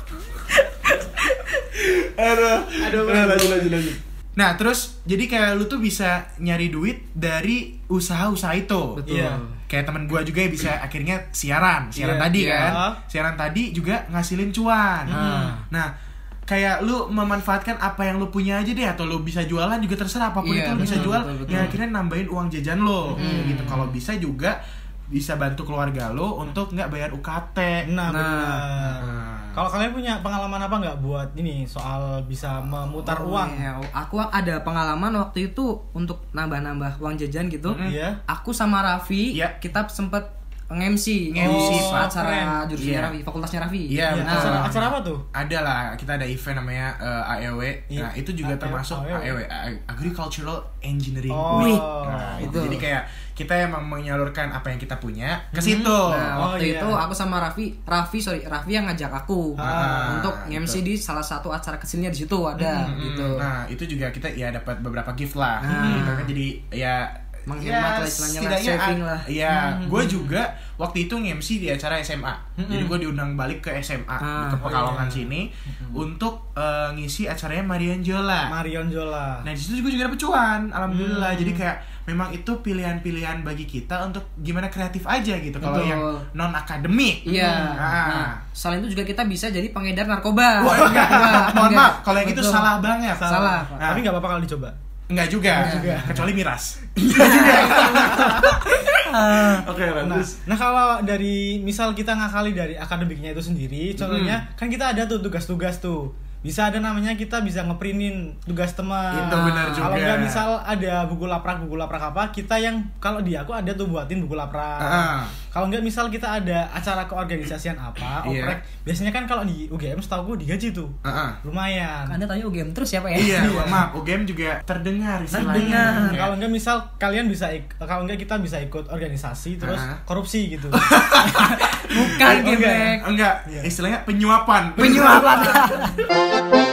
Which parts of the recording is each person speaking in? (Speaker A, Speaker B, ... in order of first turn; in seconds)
Speaker A: 0.5-1.8, 9.0-9.6, 12.3-12.8, 15.1-15.6, 20.4-21.7, 23.2-24.0, 28.1-29.0, 33.0-44.9, 51.5-51.9, 52.4-52.8, 56.0-63.5, 65.6-66.3, 67.5-69.3, 74.2-74.8, 80.9-81.5, 85.6-86.2, 87.2-93.8, 95.6-96.2, 97.1-99.6, 109.1-109.9, 122.1-123.6, 125.3-126.2, 131.2-133.0, 134.8-135.9
Speaker B: 1.7-9.0, 9.7-15.9, 16.5-24.6, 25.1-27.9, 29.0-29.6, 37.6-38.0, 41.3-42.1, 42.8-43.1, 43.9-56.5, 59.6-60.8, 62.6-78.5, 79.4-88.4, 90.6-94.0, 95.1-100.4, 104.0-104.4, 109.1-110.5, 114.8-115.3, 118.2-118.6, 121.0-121.4, 123.1-126.3, 129.6-130.0, 130.7-135.9
Speaker C: 3.0-3.9, 9.1-9.4, 11.9-13.0, 15.1-15.6, 20.8-21.8, 23.1-23.8, 27.8-33.6, 37.8-38.2, 41.4-42.6, 44.1-45.2, 47.9-49.4, 51.3-52.7, 55.5-57.0, 59.6-60.2, 65.7-66.2, 69.5-70.3, 72.6-73.0, 74.6-76.0, 78.5-79.5, 87.3-87.9, 90.7-91.5, 93.2-94.7, 95.5-96.3, 97.4-98.4, 100.0-122.2, 123.2-123.9, 125.3-130.9, 132.3-132.6, 133.4-133.7, 134.9-135.6